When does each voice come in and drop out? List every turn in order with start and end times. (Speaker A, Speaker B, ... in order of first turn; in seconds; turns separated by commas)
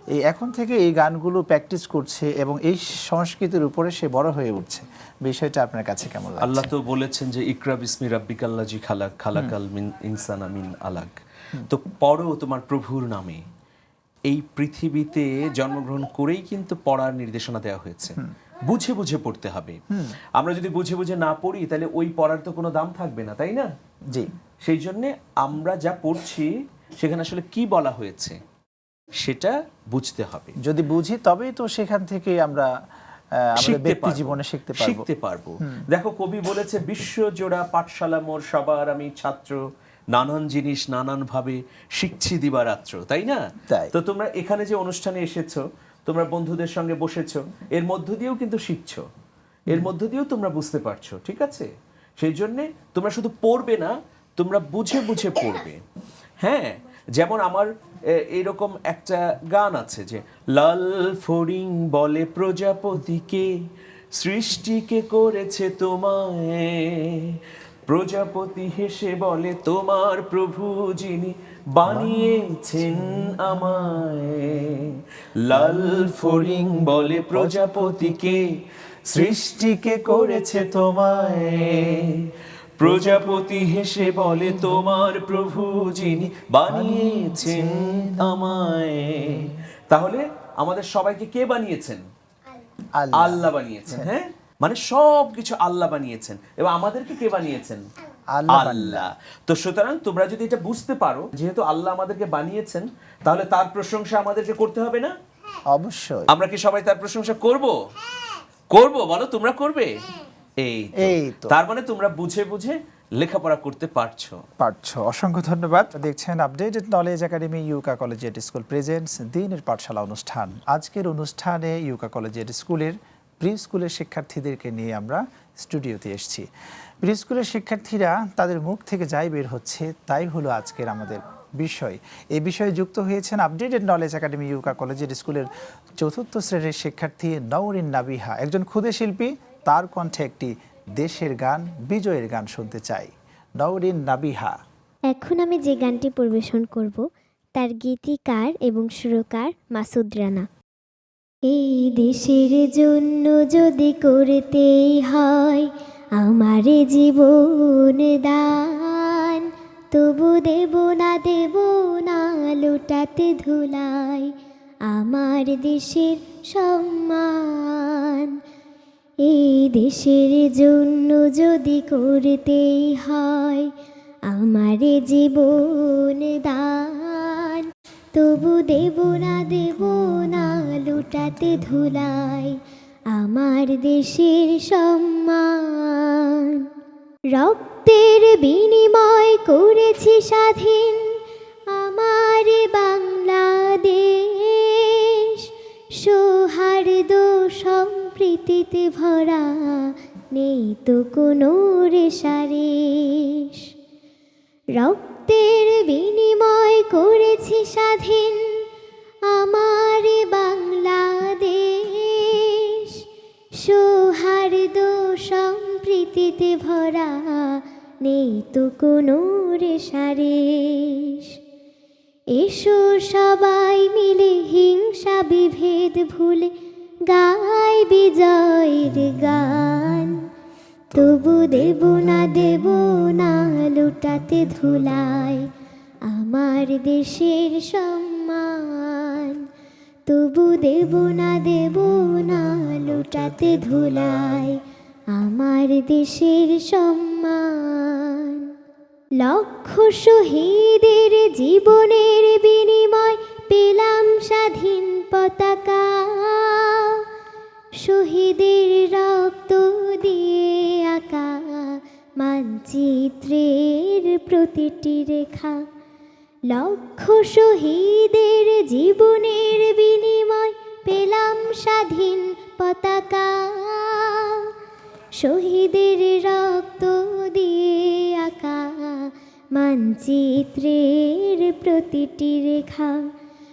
Speaker A: 0.2-6.7, Speaker B: 6.4-11.2, Speaker B: 11.7-13.4, Speaker B: 14.3-19.8, Speaker A: 19.9-20.2, Speaker B: 20.4-23.7, Speaker B: 24.6-28.4, Speaker B: 29.2-30.6, Speaker A: 30.6-32.7, Speaker A: 33.4-35.0, Speaker B: 33.6-43.4, Speaker A: 43.7-43.9, Speaker B: 43.9-49.0, Speaker B: 49.7-55.8, Speaker B: 56.4-63.5, Speaker B: 64.2-78.6, Speaker A: 71.9-72.2, Speaker A: 72.9-73.2, Speaker A: 75.5-76.5, Speaker A: 77.3-78.2, Speaker B: 79.1-82.2, Speaker A: 79.1-82.0, Speaker B: 82.8-92.0, Speaker A: 82.8-83.1, Speaker A: 86.7-88.4, Speaker A: 93.0-94.1, Speaker B: 93.1-97.9, Speaker A: 98.4-99.0, Speaker B: 98.5-105.1, Speaker A: 105.7-106.3, Speaker B: 106.3-107.8, Speaker B: 108.7-109.9, Speaker B: 110.6-114.4, Speaker A: 111.0-111.6, Speaker A: 114.6-126.5, Speaker A: 127.0-135.5, Speaker A: 136.0-144.6, Speaker C: 145.1-147.1, Speaker C: 147.6-150.5, Speaker C: 151.5-164.3, Speaker C: 164.9-168.4, Speaker C: 169.2-173.7, Speaker C: 174.3-182.6, Speaker C: 183.1-186.7, Speaker C: 187.3-191.2, Speaker C: 191.7-203.6, Speaker C: 204.8-208.6, Speaker C: 209.3-213.0, Speaker C: 213.6-221.3, Speaker C: 222.3-226.5, Speaker C: 227.1-230.3, Speaker C: 230.9-235.5, Speaker B: 231.0-231.6, Speaker A: 231.8-233.1, Speaker A: 234.1-235.4, Speaker C: 236.1-239.4, Speaker C: 240.1-244.6, Speaker A: 242.6-244.5, Speaker C: 245.1-248.5, Speaker C: 249.2-257.0, Speaker C: 257.8-265.6, Speaker C: 266.5-274.5, Speaker C: 275.2-283.1